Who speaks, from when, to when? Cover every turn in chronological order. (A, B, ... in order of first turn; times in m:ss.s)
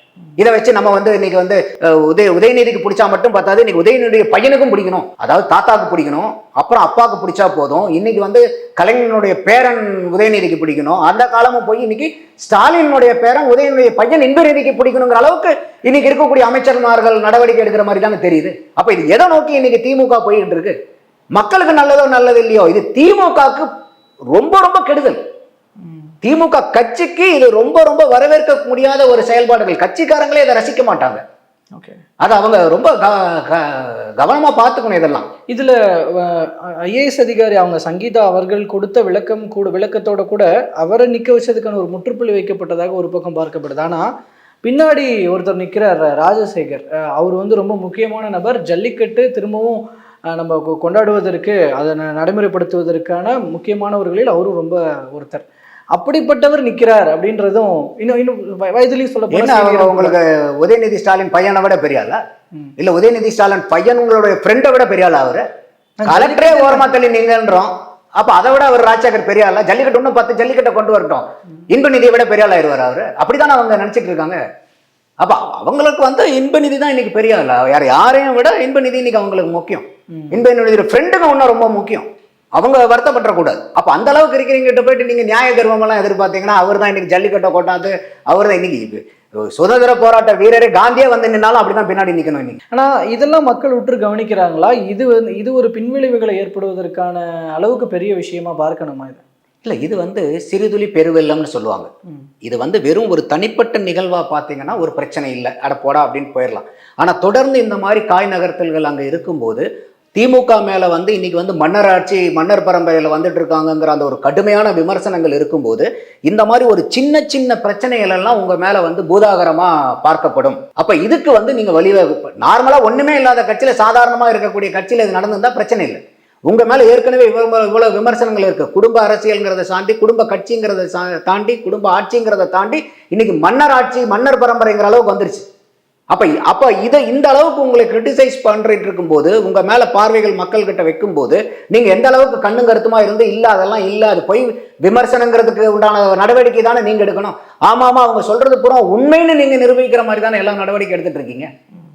0:00.4-0:20.7 A
0:21.3-0:23.7 A
0:24.3-0:25.2 A
0:25.8-0:26.1 B
0:26.2-0:31.2 A
0:31.7-0:32.0 B
0:32.2-0:35.3 A
0:35.5-0:44.0 B
0:44.6-0:49.8 B
0:50.3-1:00.2 B
0:59.3-1:02.2 A
1:02.8-1:05.4 A
1:06.0-1:06.9 B
1:06.0-1:14.4 A
1:15.2-1:32.6 A
1:20.1-1:20.4 B
1:32.7-1:39.2 B
1:39.6-1:41.9 A
1:42.4-2:15.4 A
2:16.1-2:31.5 A